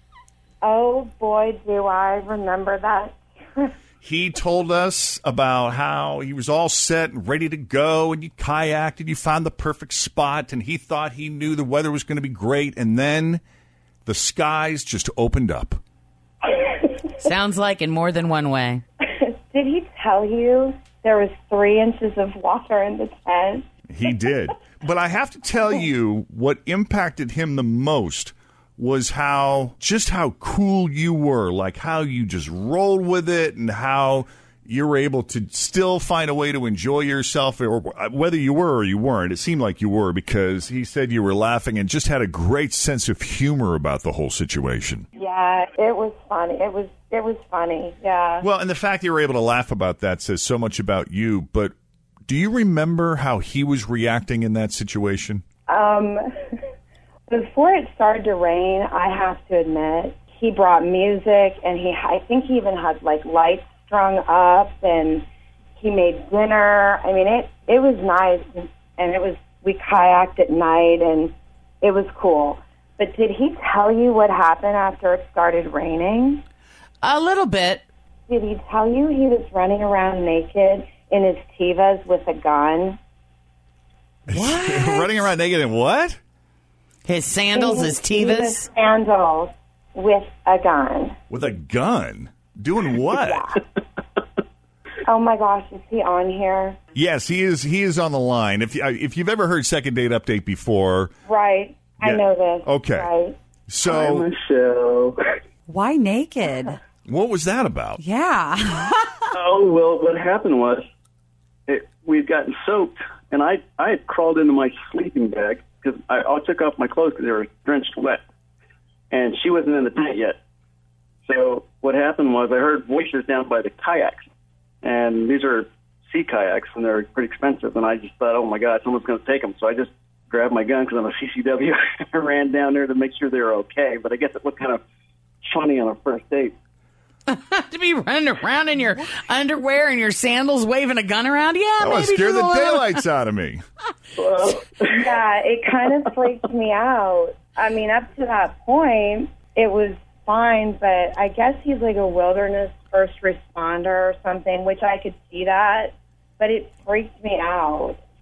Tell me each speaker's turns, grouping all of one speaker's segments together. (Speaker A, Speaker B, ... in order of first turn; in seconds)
Speaker A: 0.6-3.7, 19.2-23.6, 45.2-48.5, 55.7-56.2, 57.3-65.2, 65.8-76.4, 78.3-83.0, 87.5-91.2, 93.2-93.6, 95.1-96.8, 101.3-103.4, 145.0-158.0
Speaker B: 4.0-13.4, 14.1-15.8, 23.9-45.1, 48.4-51.7, 52.3-55.4, 84.3-86.2, 91.3-93.5, 97.0-101.1, 102.0-103.1, 103.7-104.3, 107.1-108.0, 141.8-143.6
Speaker C: 17.2-18.8, 77.0-77.8, 84.3-85.3, 87.1-88.7, 137.3-143.0
Speaker D: 103.9-105.2, 109.3-110.8, 111.7-118.2, 119.1-120.4, 121.3-124.2, 124.8-134.8, 135.5-136.5, 144.2-145.2
Speaker E: 105.7-106.8, 108.0-109.1